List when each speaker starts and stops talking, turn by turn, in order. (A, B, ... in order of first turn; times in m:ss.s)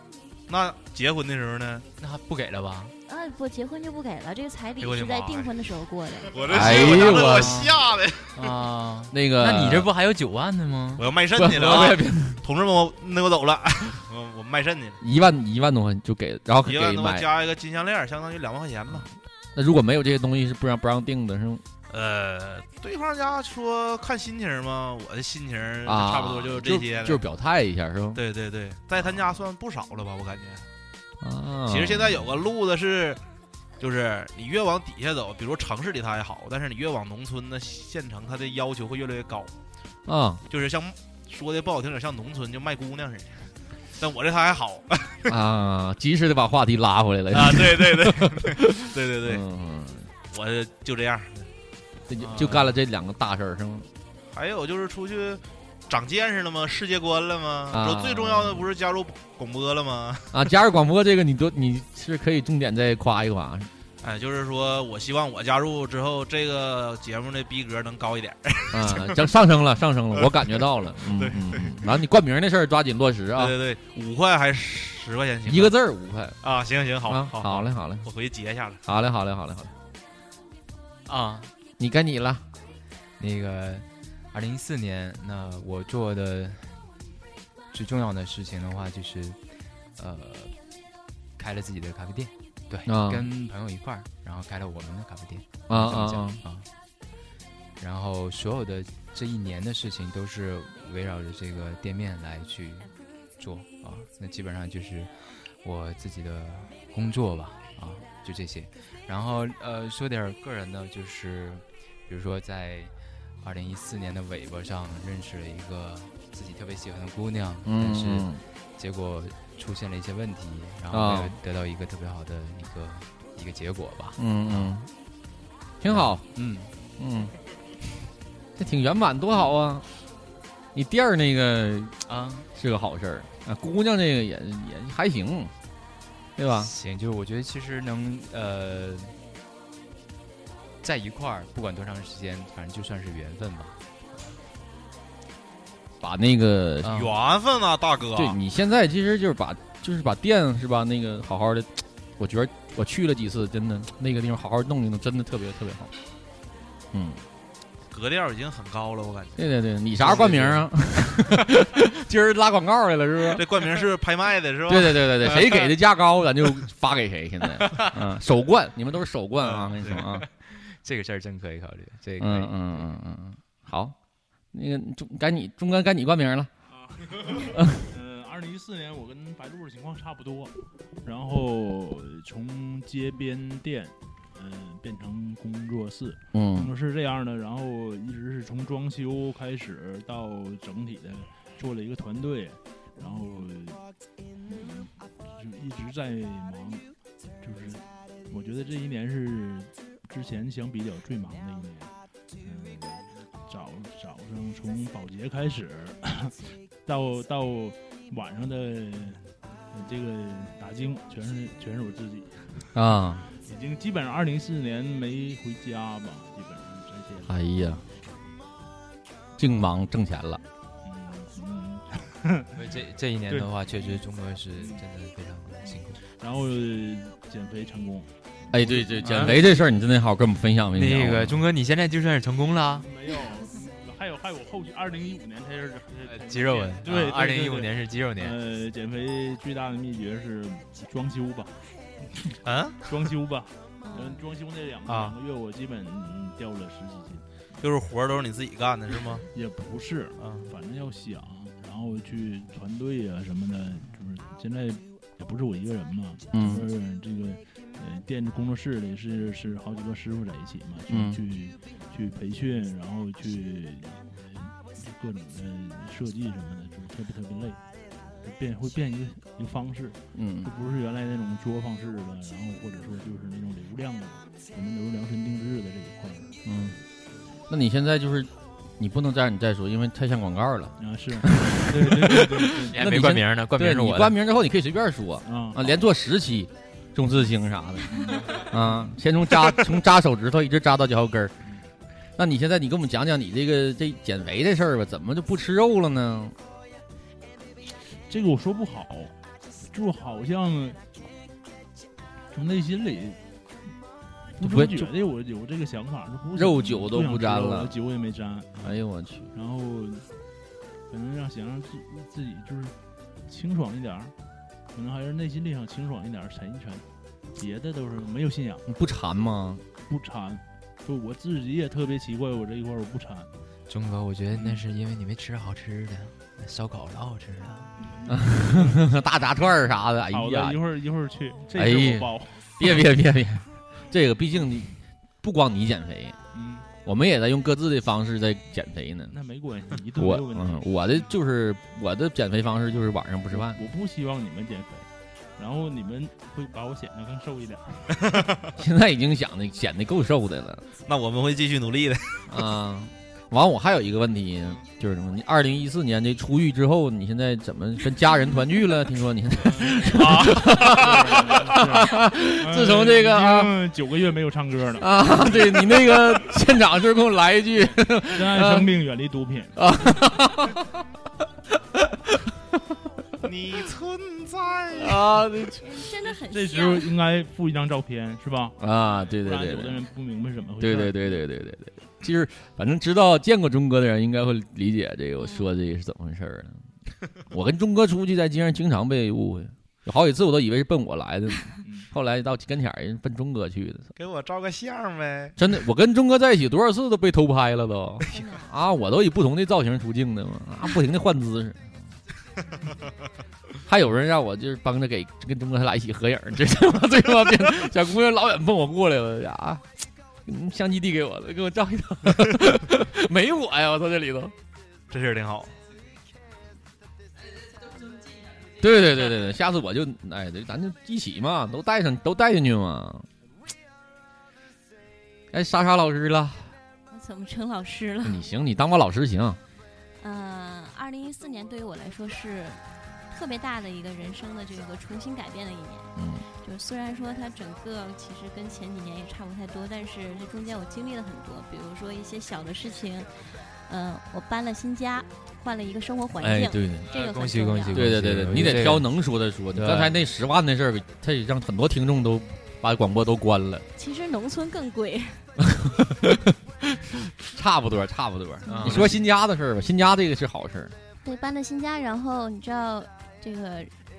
0:00.5-0:01.9 A
0:02.0-0:02.9 B
0:03.1-0:06.4 C
0:04.8-0:05.6 A
0:06.3-0:08.5 A
0:06.5-0:07.6 D
0:06.7-0:07.8 B
0:08.4-0:11.1 B
0:09.1-0:09.9 D
0:11.0-0:15.0 A
0:11.4-0:12.4 D
0:15.0-0:17.3 D
0:16.6-0:19.1 A
0:19.6-0:21.6 D
0:21.9-0:27.2 A
0:25.8-0:28.2 D
0:28.1-0:30.7 A
0:29.0-0:29.4 D
0:31.2-0:32.3 D
0:31.7-0:33.2 A
0:33.8-0:39.5 A
0:40.1-0:40.4 D
0:40.5-0:45.3 A
0:45.3-0:50.1 D
0:47.3-0:49.4 A
0:50.3-0:51.5 A
0:52.1-0:53.9 D
0:52.3-0:52.6 B
0:54.3-1:00.4 A
0:57.7-0:58.7 D
1:00.3-1:03.7 D
1:04.0-1:09.3 A
1:08.7-1:13.6 D
1:10.2-1:11.9 A
1:13.4-1:15.8 A
1:15.5-1:16.4 D
1:16.4-1:18.8 A
1:17.1-1:18.1 D
1:18.9-1:19.7 D
1:21.1-1:21.5 B
1:21.8-1:22.4 D
1:23.2-1:26.8 B
1:27.7-1:29.4 B
1:30.0-1:30.6 B
1:31.4-1:36.7 B
1:32.9-1:33.3 D
1:35.7-1:36.4 D
1:37.8-2:04.8 B
1:57.6-1:58.4 D
2:00.9-2:01.4 D
2:04.2-2:04.9 D
2:05.8-2:06.2 D
2:05.9-2:06.7 B
2:07.0-2:07.3 D
2:08.6-2:09.9 D
2:10.7-2:12.0 D
2:12.1-2:12.5 B
2:12.5-2:15.5 D
2:16.4-2:16.7 D
2:16.6-2:19.2 B
2:20.8-2:23.8 B
2:26.0-2:26.9 D
2:26.8-2:27.2 B
2:26.9-2:28.4 A
2:28.2-2:35.9 D
2:36.9-2:37.2 D
2:37.9-2:39.4 A
2:39.4-2:43.5 D
2:40.0-2:40.6 A
2:43.3-2:45.1 A
2:44.7-2:50.2 D
2:45.3-2:45.7 B
2:47.6-2:48.0 B
2:49.5-2:52.9 B
2:52.2-2:54.0 D
2:54.5-2:56.5 D
2:56.7-3:00.5 E
2:57.5-2:57.8 D
3:01.0-3:13.8 E
3:06.3-3:06.7 D
3:14.5-3:14.7 C
3:14.5-3:16.8 E
3:17.4-3:32.8 E
3:32.7-3:33.3 D
3:33.4-3:37.4 E
3:37.2-3:37.8 D
3:39.4-3:40.4 D
3:40.8-3:42.5 E
3:42.5-3:46.0 B
3:43.3-3:44.0 E
3:44.6-3:44.8 E
3:46.2-3:49.6 E
3:48.5-3:51.4 D
3:49.0-3:49.4 B
3:50.7-3:52.9 B
3:52.8-4:07.2 E
3:56.0-3:58.4 B
4:02.4-4:03.1 A
4:03.8-4:04.2 C
4:04.9-4:05.2 A
4:07.6-4:09.2 A
4:09.3-4:27.6 E
4:10.2-4:10.5 A
4:16.3-4:16.7 D
4:20.9-4:21.2 D
4:28.2-4:36.4 E
4:30.1-4:30.5 D
4:36.4-4:36.8 D
4:37.5-4:51.3 D
4:40.8-4:42.8 E
4:42.7-4:44.2 B
4:45.2-4:45.7 E
4:47.9-4:48.6 E
4:52.2-4:56.4 D
4:58.1-4:59.1 E
4:59.7-5:00.8 E
5:02.3-5:03.2 E
5:04.4-5:08.8 E
5:04.4-5:04.9 D
5:06.3-5:07.8 D
5:08.6-5:09.3 D
5:09.3-5:10.1 E
5:10.9-5:12.8 E
5:13.3-5:14.1 E
5:14.7-5:16.8 E
5:17.4-5:18.6 E
5:18.7-5:19.6 D
5:19.9-5:23.3 E
5:23.7-5:27.7 B
5:27.8-5:28.9 E
5:28.1-5:30.6 D
5:30.1-5:32.9 E
5:31.6-5:36.2 D
5:36.3-5:36.7 E
5:36.8-5:39.2 D
5:39.1-5:40.7 E
5:40.0-5:43.6 D
5:43.3-5:48.2 E
5:48.6-5:50.7 D
5:50.9-5:52.2 A
5:52.3-6:03.6 D
5:59.4-6:06.0 E
6:00.1-6:00.3 A
6:04.8-6:08.8 D
6:08.1-6:09.7 E
6:09.6-6:10.8 D
6:11.8-6:12.5 D
6:13.2-6:15.1 A
6:14.7-6:15.6 D
6:15.6-6:16.9 C
6:16.2-6:21.2 E
6:18.6-6:19.8 D
6:20.6-6:26.6 D
6:25.2-6:25.5 C
6:27.3-6:33.9 D
6:31.6-6:31.9 E
6:34.0-6:35.4 A
6:35.4-6:41.8 D
6:38.1-6:38.5 C
6:43.7-6:49.6 D
6:50.3-6:54.3 D
6:54.9-6:55.5 A
6:58.5-7:03.1 D
7:05.3-7:06.5 D
7:06.9-7:08.2 C
7:08.0-7:09.4 D
7:10.0-7:27.8 C
7:16.0-7:16.2 D
7:26.2-7:26.9 D
7:26.9-7:28.9 B
7:27.7-7:33.7 D
7:29.5-7:30.0 B
7:33.8-7:35.3 C
7:35.5-7:36.4 D
7:37.2-7:40.8 D
7:38.5-7:39.0 B
7:41.0-7:43.7 C